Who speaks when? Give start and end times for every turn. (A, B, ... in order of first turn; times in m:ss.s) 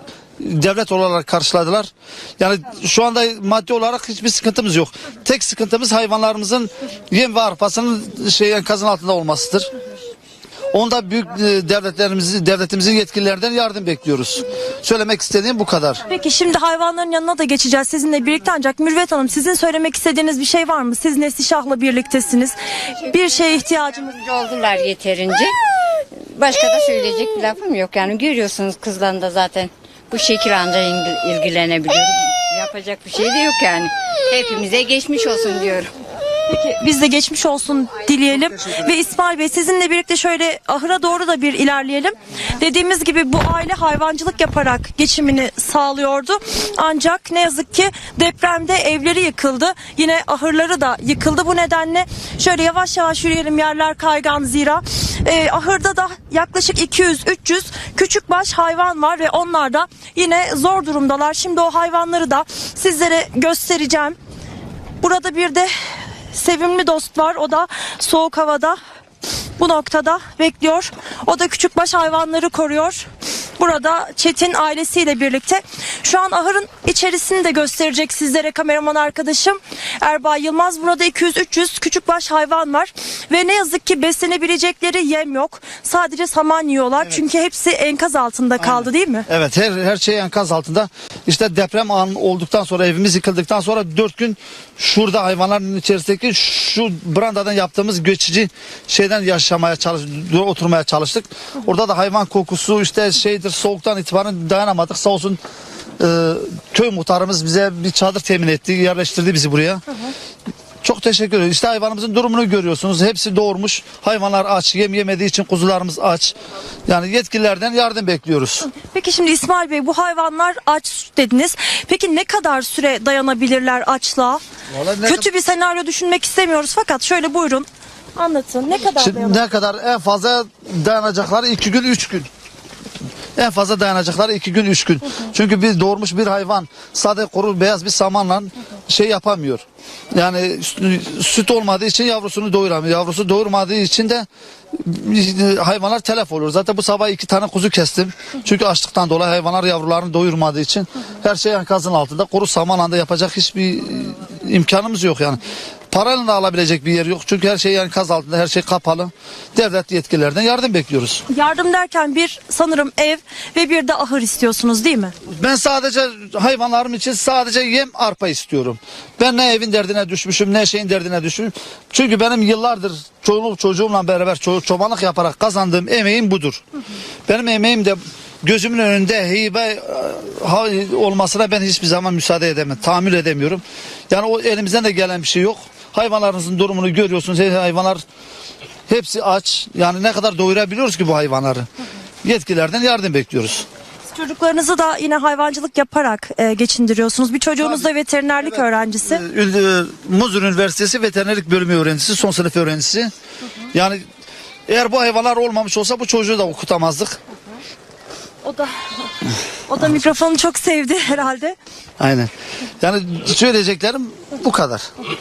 0:00.4-0:09.7 A
0:10.7-0:16.0 A
0:16.1-0:24.1 B
0:24.1-0:25.5 C
0:26.2-0:35.9 C
0:36.5-1:04.2 B
1:05.0-1:05.7 B
1:06.3-1:08.8 B
1:09.6-1:29.3 B
1:28.6-1:45.4 A
1:46.0-1:49.8 A
1:50.8-1:56.4 A
1:56.9-1:58.7 A
1:58.7-2:04.4 B
2:04.7-2:05.2 A
2:05.0-2:09.5 B
2:09.0-2:12.3 A
2:13.4-2:41.2 A
2:41.3-2:45.1 B
2:45.3-2:56.6 A
2:57.3-3:08.0 A
3:08.9-3:11.6 A
3:12.2-3:13.7 A
3:14.1-3:19.2 B
3:17.6-3:23.1 A
3:23.7-3:24.0 A
3:24.7-3:27.2 A
3:28.4-3:31.6 B
3:32.0-3:32.3 A
3:32.8-3:34.9 A